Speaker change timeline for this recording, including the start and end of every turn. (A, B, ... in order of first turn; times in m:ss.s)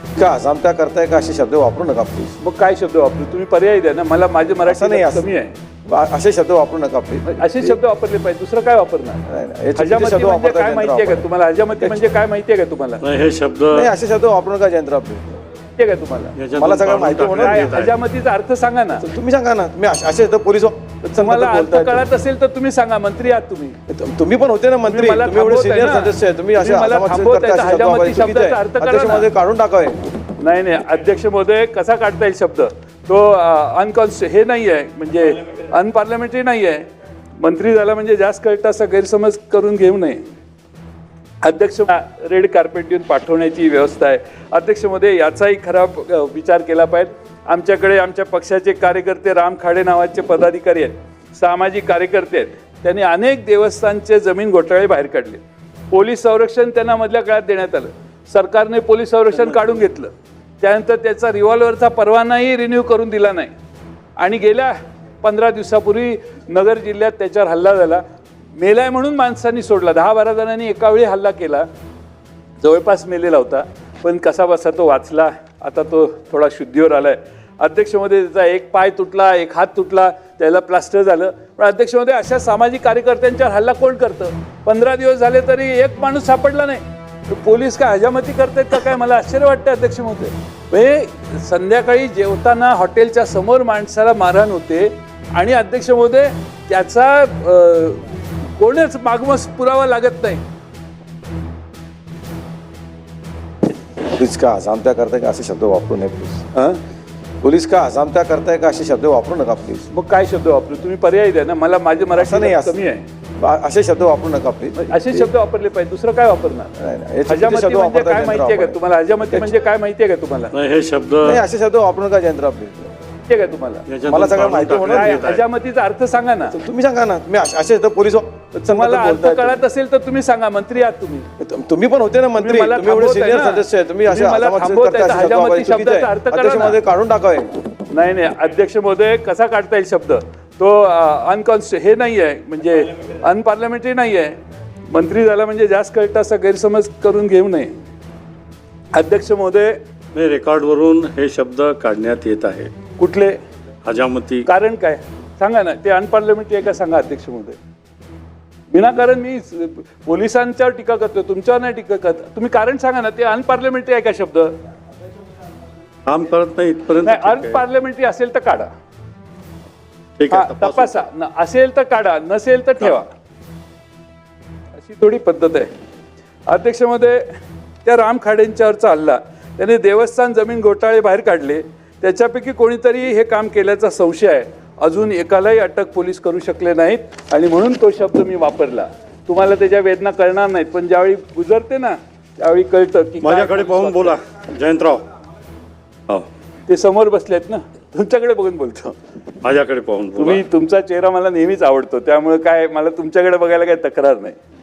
0:00.2-0:02.4 A
0:02.4-0:05.6 B
0:04.6-0:05.3 A
0:05.9-0:07.8 A
0:07.3-0:09.2 B
0:09.3-0:11.3 A
0:09.8-0:13.0 B
0:13.0-0:13.9 C
0:13.7-0:15.2 A
0:15.8-0:16.4 B
0:16.4-0:17.9 C
0:16.6-0:17.8 A
0:17.4-0:19.0 B
0:19.0-0:22.0 A
0:21.1-0:23.8 B
0:23.9-0:30.1 A
0:24.9-0:29.3 B
0:30.4-0:36.9 B
0:37.4-0:40.2 B
0:41.4-1:03.5 B
1:04.2-1:08.0 B
1:08.6-1:11.7 B
1:12.6-1:38.0 B
1:38.6-1:40.4 B
1:44.1-1:46.5 A
1:46.5-1:46.8 B
1:47.4-1:49.9 A
1:49.9-1:53.1 B
1:52.1-1:52.8 A
1:53.4-1:55.3 A
1:54.8-1:56.7 B
1:56.8-1:59.5 A
1:57.3-2:00.5 B
2:00.5-2:01.4 C
2:01.2-2:02.9 A
2:03.3-2:03.8 B
2:03.9-2:05.4 C
2:04.1-2:05.2 A
2:04.9-2:06.6 B
2:06.5-2:09.6 A
2:08.7-2:11.3 B
2:11.4-2:17.6 A
2:12.4-2:16.8 B
2:17.9-2:24.4 B
2:24.9-2:27.8 B
2:28.9-2:29.8 B
2:30.1-2:32.7 C
2:33.0-2:33.4 B
2:33.8-2:34.5 C
2:34.4-2:37.6 B
2:38.7-2:44.5 B
2:46.1-2:47.6 C
2:47.0-2:48.7 B
2:50.2-2:51.0 C
2:50.3-2:53.1 B
2:54.8-2:55.7 B
2:56.5-2:57.3 B
2:57.8-3:14.2 B
3:13.2-3:15.0 C
3:16.7-3:19.0 B
3:19.4-3:20.4 C
3:20.2-3:24.4 B